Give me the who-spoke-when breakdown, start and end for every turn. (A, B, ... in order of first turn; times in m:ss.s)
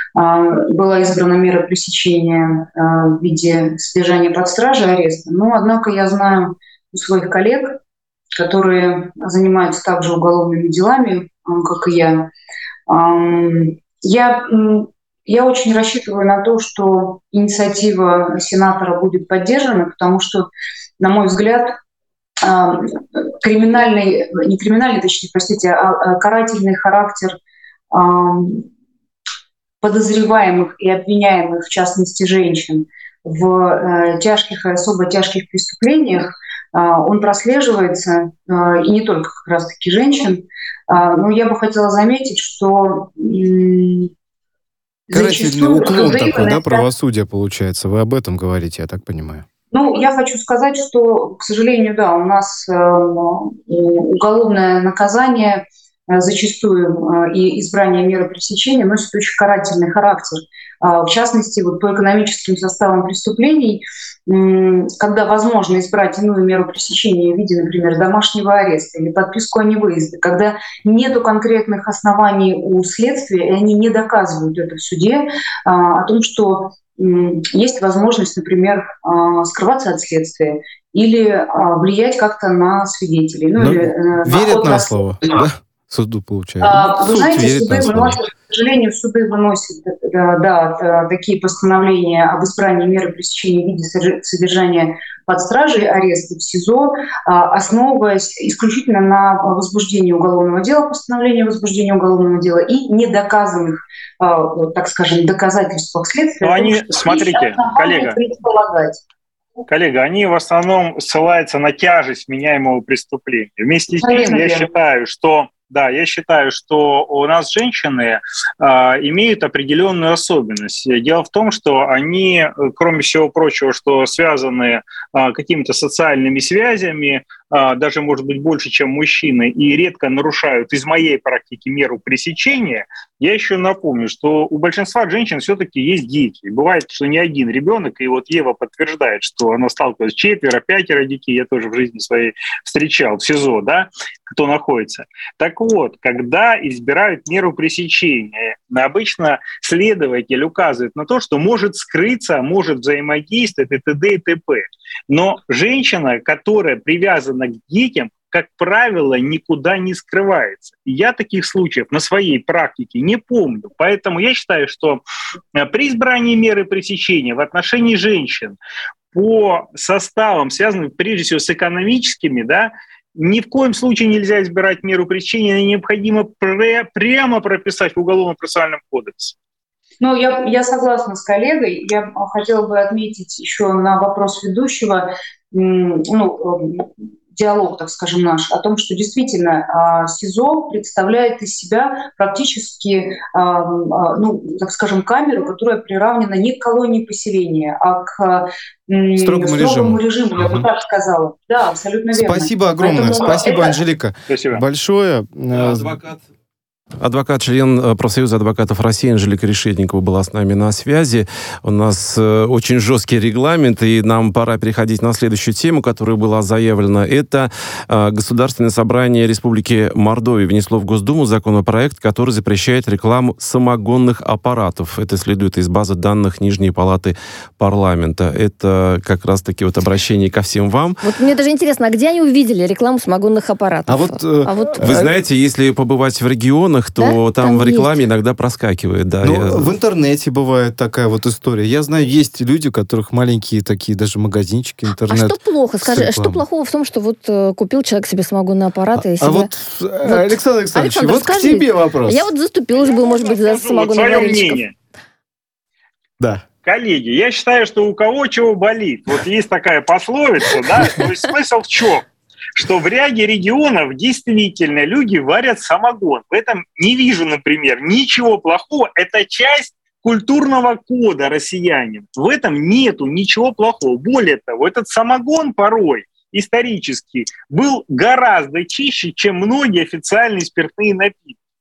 0:00.2-0:07.8 A
0:08.4-0:12.3 A
0:12.9-0:20.5 A
0:21.0-0:21.8 A
0:22.4-0:27.4 A
0:27.9-0:28.7 A
0:29.8-0:44.1 A
0:45.1-0:46.9 A
0:45.1-0:49.4 B
0:49.7-1:25.4 A
1:23.6-1:28.2 B
1:26.6-1:49.0 A
1:46.4-1:48.2 C
1:49.7-2:45.0 C
1:54.0-1:54.7 A
2:45.6-2:48.6 C
2:49.1-2:59.4 C
3:00.0-3:23.8 A
3:19.2-3:20.7 B
3:22.1-3:26.0 B
3:24.3-3:24.6 C
3:25.5-3:26.2 D
3:27.0-3:51.0 D
3:51.0-3:55.0 E
3:53.9-3:55.1 B
3:54.8-3:59.7 D
3:57.0-3:58.0 E
3:59.2-4:06.4 B
4:05.1-4:09.5 E
4:09.0-4:12.3 B
4:10.0-4:14.6 E
4:12.9-4:14.7 C
4:16.6-4:41.4 C